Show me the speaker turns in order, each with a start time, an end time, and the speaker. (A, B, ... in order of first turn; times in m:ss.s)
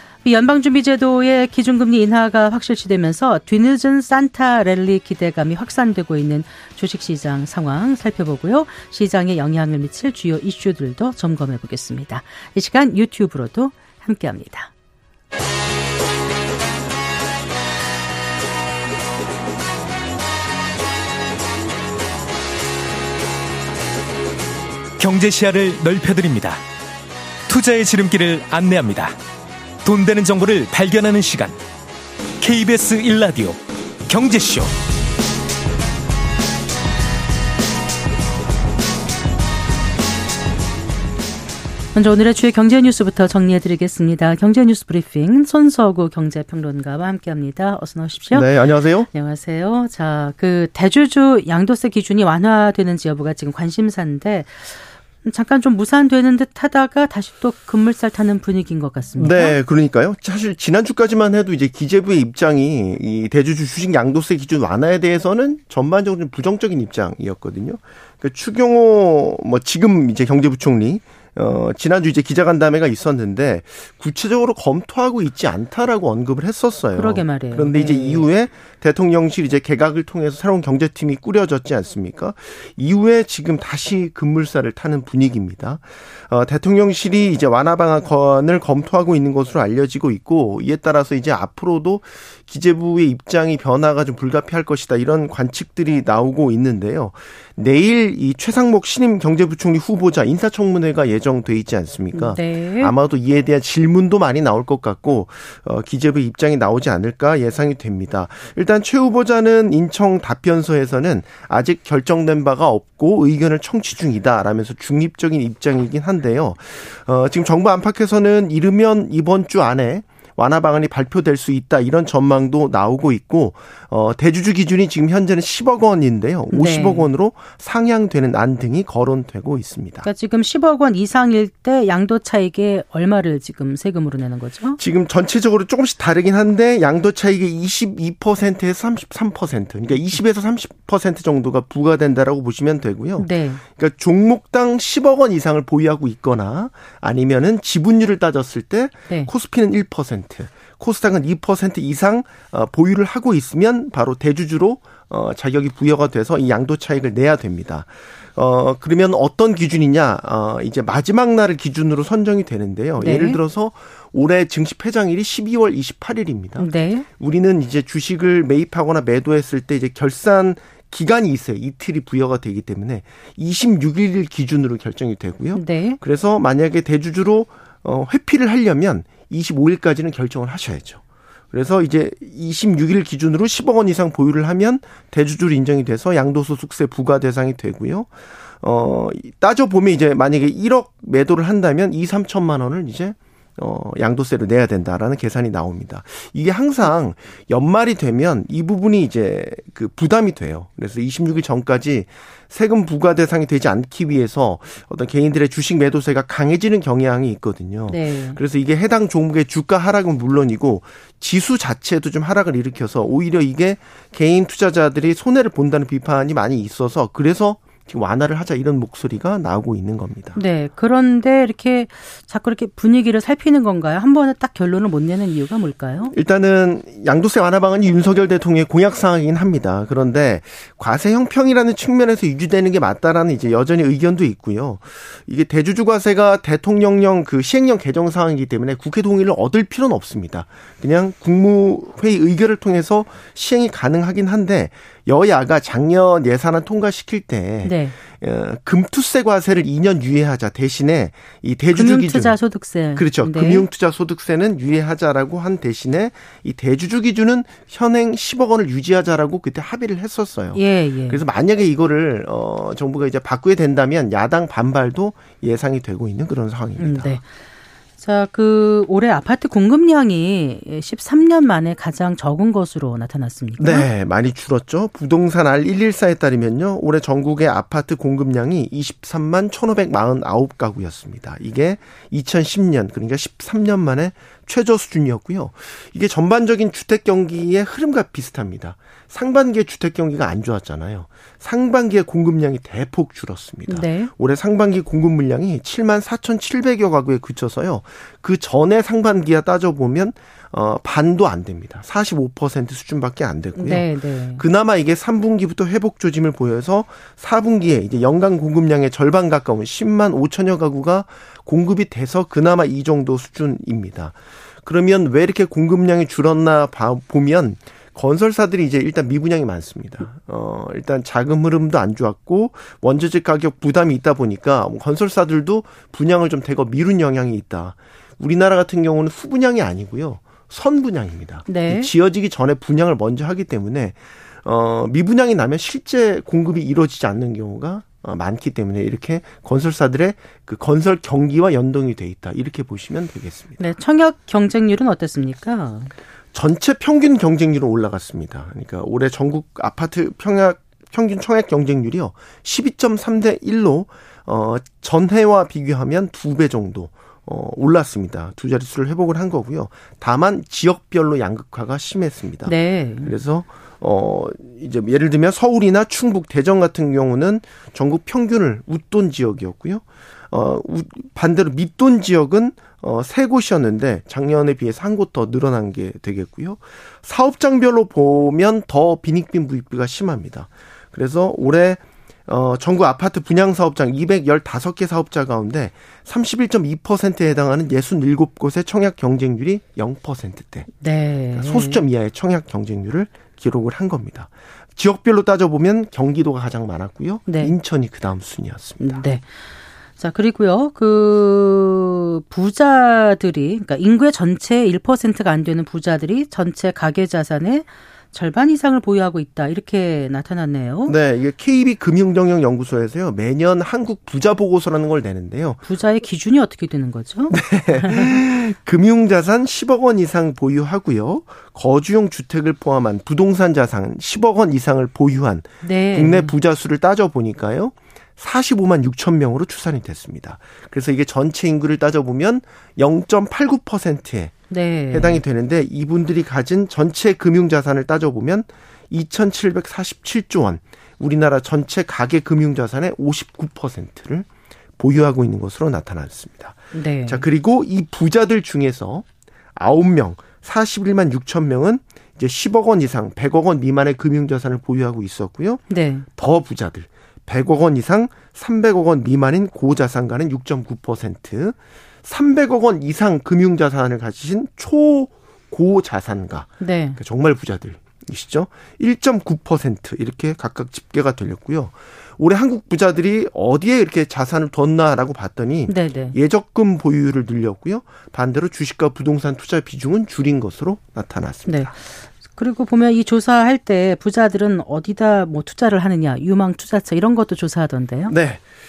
0:00.2-0:14.7 A
0:25.0-0:26.6 B
0:27.5-0:29.2 B
0:29.8-0:31.6 B
0:32.4-0:34.7 B
0:41.9-0:48.5 A
0:48.3-0:49.1 C
0:49.1-0:59.6 A
0:59.2-2:10.1 C
1:16.9-1:18.3 A
1:42.1-1:42.9 A
2:06.5-2:07.0 A
2:10.0-2:14.8 A
2:14.8-3:01.0 C
2:23.2-2:23.6 A
2:43.0-2:43.4 A
2:46.6-2:47.0 A
2:55.5-2:56.0 A
3:01.5-3:08.1 C
3:08.6-3:40.4 C
3:27.9-3:28.4 A
3:40.3-3:46.1 A
3:46.1-4:12.4 C
4:07.6-4:07.9 A
4:11.7-4:13.7 A
4:12.9-4:27.1 C
4:20.5-4:21.2 A
4:26.8-4:27.2 A
4:28.0-4:33.9 A
4:33.6-5:43.6 C
4:53.7-4:54.1 A
5:03.6-5:04.4 A
5:31.5-5:31.9 A
5:43.6-5:45.9 A
5:46.3-6:30.7 C
6:02.4-6:03.1 A
6:30.8-6:31.8 A
6:31.3-6:39.0 C
6:37.3-6:37.5 A
6:38.8-6:39.2 A
6:40.0-6:50.9 A
6:50.9-6:55.6 C
6:55.6-6:58.2 A
6:57.3-7:24.3 C
7:05.6-7:06.3 A
7:14.5-7:15.2 A
7:24.8-7:29.0 C
7:26.7-7:27.2 A
7:29.6-8:01.7 C
7:35.7-7:36.1 A
7:46.6-7:47.0 A
7:55.7-7:56.1 A
8:01.5-8:01.7 A
8:02.3-8:08.1 A
8:08.1-8:08.4 C